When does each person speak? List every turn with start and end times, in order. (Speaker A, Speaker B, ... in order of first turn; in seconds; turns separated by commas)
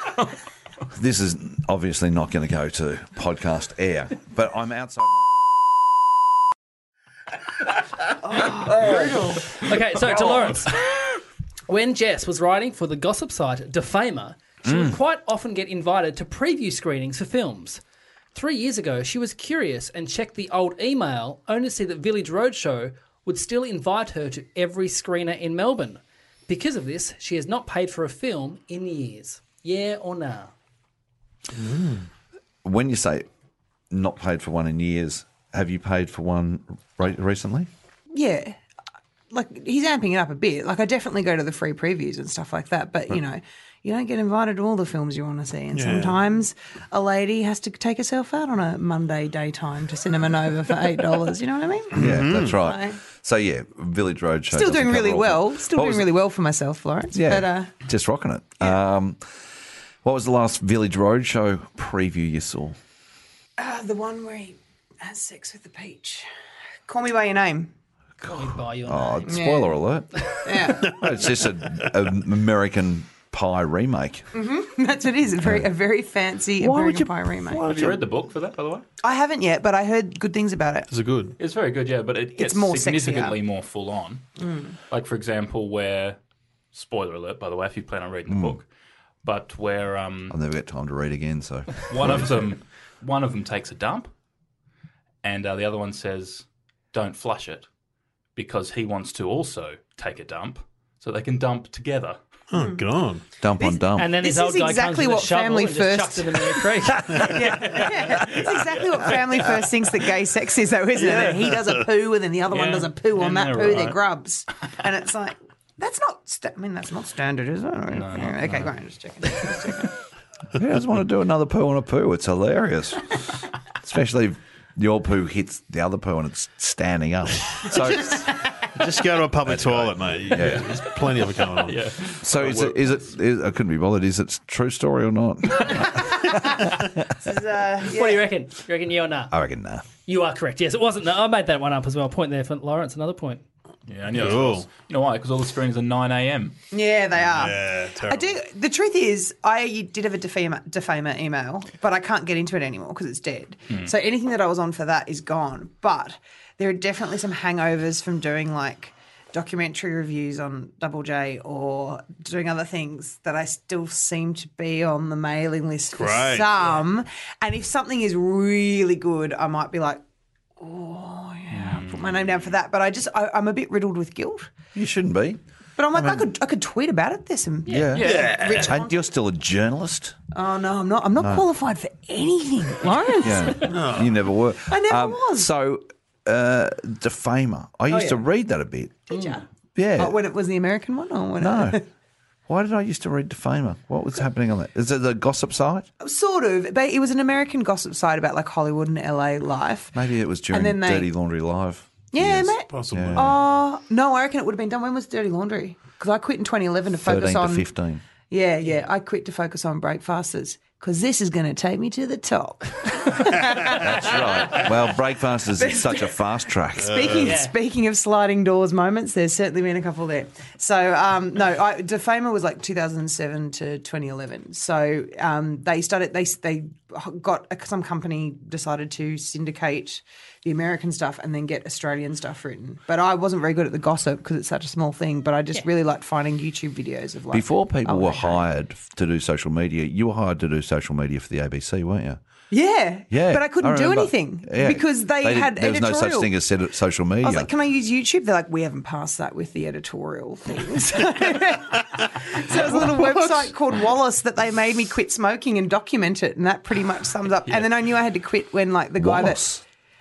Speaker A: 0.9-5.3, Speaker B: 8.3-9.4, Speaker C: 9.5-10.7, Speaker C: 11.7-17.8, Speaker A: 14.7-14.9, Speaker C: 18.3-30.5, Speaker D: 31.5-32.0, Speaker A: 32.6-33.3, Speaker A: 33.9-37.7, Speaker B: 38.1-38.6, Speaker B: 39.3-53.0, Speaker D: 45.7-46.2, Speaker A: 51.9-56.1, Speaker D: 52.0-52.5, Speaker B: 54.5-57.7, Speaker A: 57.1-59.2, Speaker A: 60.0-62.8, Speaker B: 63.6-66.2, Speaker B: 66.9-67.7, Speaker A: 68.2-74.3, Speaker C: 68.3-69.3, Speaker B: 69.2-69.8, Speaker B: 70.4-71.0, Speaker B: 74.3-77.9, Speaker A: 75.4-75.7, Speaker A: 76.6-78.0, Speaker E: 77.6-78.8, Speaker B: 79.0-80.9, Speaker D: 80.9-81.4, Speaker E: 81.4-84.2, Speaker B: 82.3-83.3, Speaker B: 84.4-84.7, Speaker E: 84.9-86.2, Speaker E: 86.7-88.7, Speaker A: 88.3-88.6, Speaker E: 89.2-90.4, Speaker A: 90.3-92.4, Speaker E: 91.9-94.1, Speaker E: 95.2-97.7, Speaker E: 98.3-102.2, Speaker D: 102.5-103.2, Speaker B: 102.5-102.8, Speaker A: 103.4-104.1, Speaker B: 103.6-120.0, Speaker C: 104.0-107.3, Speaker E: 107.8-109.2, Speaker E: 111.0-111.5, Speaker E: 112.5-114.0, Speaker E: 117.9-118.7, Speaker A: 120.5-123.2, Speaker A: 123.8-128.3, Speaker D: 128.7-131.8, Speaker A: 129.4-130.7, Speaker E: 130.4-130.6, Speaker E: 131.6-133.0, Speaker A: 132.2-136.6, Speaker B: 137.2-138.2, Speaker C: 137.9-139.3, Speaker A: 139.3-139.8, Speaker C: 140.1-143.4, Speaker E: 143.9-146.5, Speaker D: 144.1-144.7, Speaker B: 146.7-170.0, Speaker D: 147.3-148.3, Speaker D: 165.9-166.7, Speaker B: 170.6-174.5, Speaker E: 171.5-172.3, Speaker A: 174.7-175.4, Speaker B: 175.8-179.0, Speaker A: 175.9-176.3, Speaker A: 177.7-180.2, Speaker D: 178.0-178.7, Speaker E: 178.0-178.6, Speaker B: 180.3-183.7, Speaker A: 181.2-181.4, Speaker A: 183.2-189.1, Speaker D: 183.6-184.1, Speaker B: 184.6-185.5, Speaker C: 187.9-188.2, Speaker B: 189.1-189.4, Speaker A: 189.7-190.2, Speaker B: 190.0-191.8, Speaker A: 191.4-191.8, Speaker A: 192.5-195.9, Speaker B: 196.0-199.9, Speaker A: 199.9-203.3, Speaker B: 200.5-201.1, Speaker B: 202.1-207.7, Speaker D: 202.7-203.4, Speaker A: 207.0-208.0, Speaker B: 208.3-215.0, Speaker A: 213.8-217.2, Speaker B: 215.5-216.2, Speaker B: 216.8-238.4, Speaker D: 216.8-217.3, Speaker C: 217.2-217.5, Speaker A: 237.3-242.2, Speaker B: 242.5-246.3, Speaker A: 243.1-247.5, Speaker B: 247.2-259.4, Speaker D: 252.9-253.3, Speaker A: 259.0-259.6